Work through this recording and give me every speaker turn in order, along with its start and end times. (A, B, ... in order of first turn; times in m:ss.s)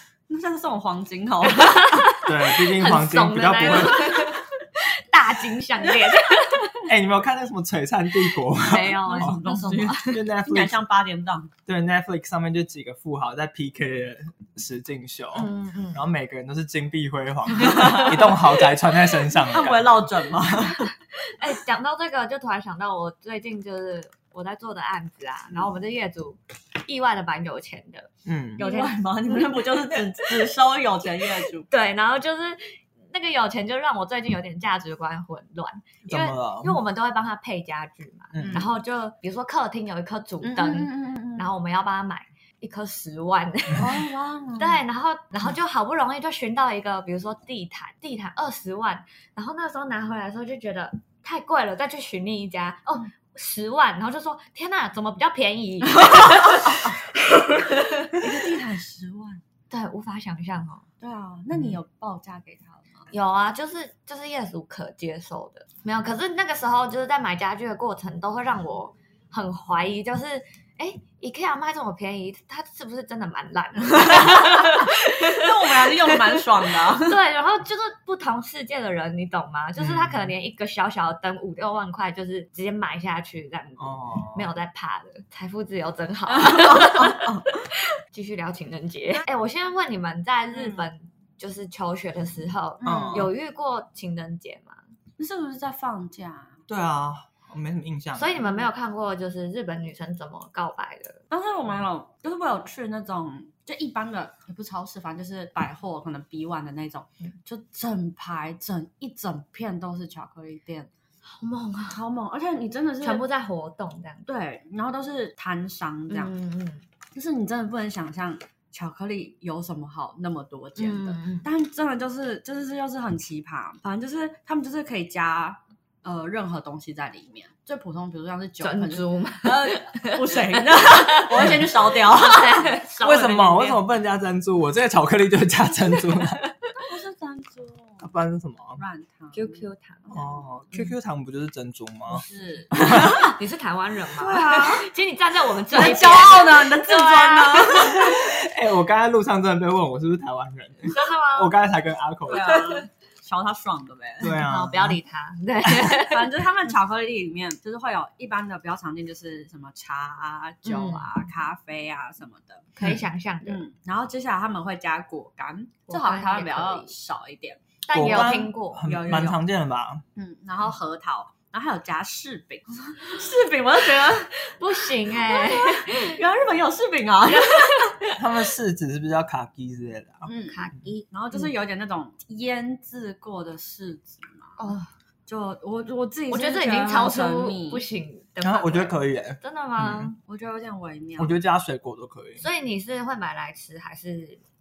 0:00.3-0:02.1 A
0:01.6-0:06.9 B
0:02.2-0:04.3 C
0:06.9-0:09.4 C
0:08.6-0:10.2 B
0:09.0-0:11.5 A
0:10.0-0:10.8 C
0:11.7-0:20.0 C
0:15.3-0:16.0 B
0:17.6-0:18.6 A
0:17.7-0:18.1 B
0:19.3-0:20.9 A
0:21.2-0:30.0 B
0:28.2-0:28.6 C
0:28.6-0:31.7 A
0:31.7-0:44.0 B
0:36.0-0:36.8 C
0:38.3-0:38.7 C
0:38.4-0:38.7 A
0:40.4-0:41.5 A
0:43.8-0:44.8 A
0:44.6-0:58.3 B
0:56.0-0:56.9 A
0:58.1-0:59.4 A
0:59.7-1:00.8 B
1:01.0-1:03.1 A
1:01.5-1:01.8 C
1:03.1-1:34.8 B
1:14.0-1:17.2 A
1:19.8-1:20.3 C
1:23.8-1:24.5 C
1:26.3-1:27.5 A
1:30.5-1:30.8 A
1:32.8-1:33.3 A
1:32.8-1:33.3 C
1:35.2-1:36.6 A
1:36.7-1:38.3 C
1:38.2-1:41.2 B
1:41.3-1:50.9 A
1:51.2-1:52.0 B
1:51.9-1:53.2 A
1:53.0-1:54.3 B
1:54.3-1:56.3 A
1:56.1-1:56.8 B
1:57.1-2:12.8 A
2:00.8-2:01.5 B
2:08.6-2:13.8 B
2:13.0-2:16.4 C
2:16.7-2:18.1 A
2:18.0-2:18.8 C
2:18.8-2:20.3 A
2:19.3-2:20.2 B
2:20.1-2:22.2 C
2:22.1-2:23.4 A
2:22.8-2:23.1 C
2:23.3-2:28.2 B
2:24.1-2:24.9 A
2:25.7-2:28.2 A
2:27.9-2:32.6 C
2:30.9-2:31.5 B
2:32.3-2:34.4 A
2:32.4-2:32.8 B
2:34.2-2:35.0 C
2:34.3-2:36.3 B
2:35.8-2:42.7 A
2:40.6-2:41.1 B
2:42.8-2:43.6 B
2:43.4-2:49.4 A
2:45.9-2:46.9 B
2:47.8-2:48.9 B
2:47.9-2:50.0 C
2:50.2-2:57.9 A
2:54.3-2:56.2 B
2:57.3-2:58.2 B
2:58.2-3:00.3 C
3:00.2-3:04.6 A
3:00.4-3:01.1 B
3:04.6-3:04.9 B
3:05.3-3:07.8 A
3:06.3-3:10.2 B
3:08.4-3:10.1 C
3:10.2-3:11.3 A
3:11.2-3:12.4 C
3:12.4-3:14.4 B